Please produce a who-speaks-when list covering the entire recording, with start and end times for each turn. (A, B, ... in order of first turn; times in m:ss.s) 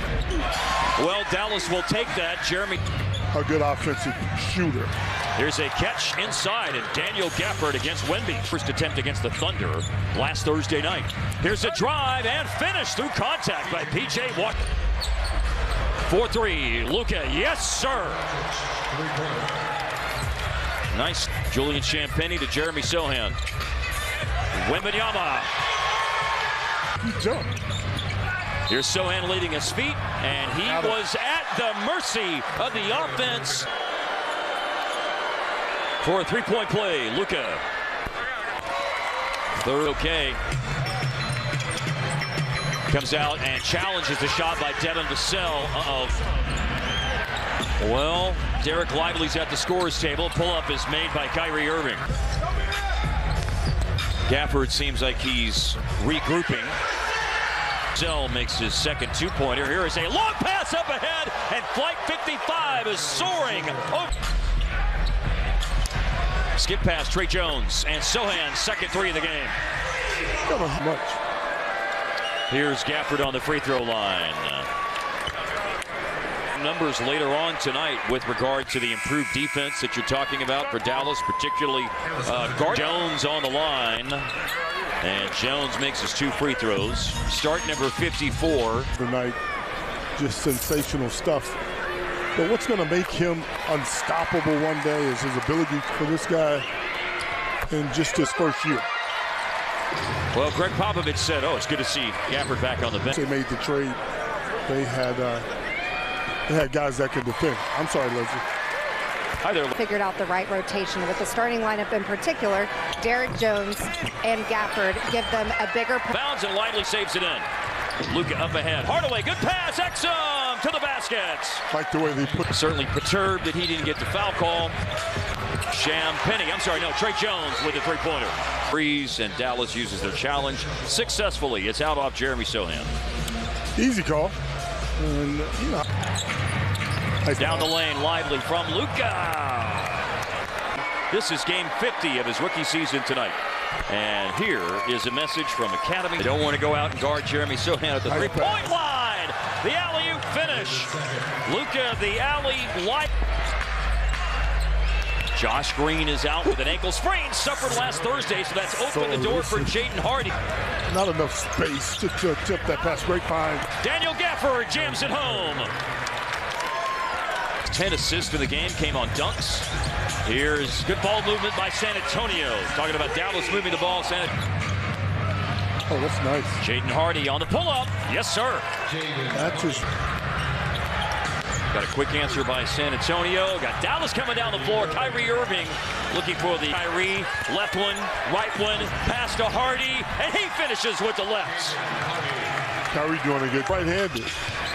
0:01.0-0:02.8 A
0:03.3-0:04.9 B
0:05.4-0:14.6 A
0:16.0-0:18.2 A
0:20.9-0:23.4 A
0:24.6-0:25.5 A
0:27.0-0:27.5 B
0:28.7-0:33.7 A
0:30.6-0:31.0 B
0:36.0-0:37.6 A
0:39.6-0:40.4 A
0:42.9-0:46.2 A
0:47.8-0:52.0 A
0:54.3-0:56.8 A
0:57.9-1:04.1 A
1:06.6-1:09.6 A
1:10.5-1:11.2 B
1:12.5-1:14.7 A
1:16.5-1:24.3 A
1:25.0-1:28.9 A
1:29.0-1:29.4 B
1:30.2-1:31.6 B
1:32.4-1:36.7 B
1:37.7-1:38.9 B
1:40.3-1:43.1 A
1:43.1-1:44.0 B
1:44.7-1:45.5 B
1:46.5-1:48.4 B
1:49.4-1:49.8 A
1:49.8-1:56.2 C
1:56.1-1:57.5 A
1:58.1-2:01.6 A
2:01.7-2:02.5 B
2:02.5-2:04.8 A
2:05.7-2:12.9 A
2:13.8-2:14.4 B
2:15.0-2:15.8 B
2:17.2-2:17.7 B
2:17.4-2:20.0 A
2:21.1-2:33.1 A
2:28.1-2:28.7 B
2:35.3-2:40.4 A
2:38.8-2:39.8 B
2:40.9-2:43.7 B
2:43.8-2:45.7 A
2:47.7-2:49.7 A
2:50.2-2:54.3 A
2:55.9-2:56.6 B
2:56.6-2:58.7 A
2:59.3-2:59.9 B
3:01.7-3:11.8 A
3:12.9-3:14.3 B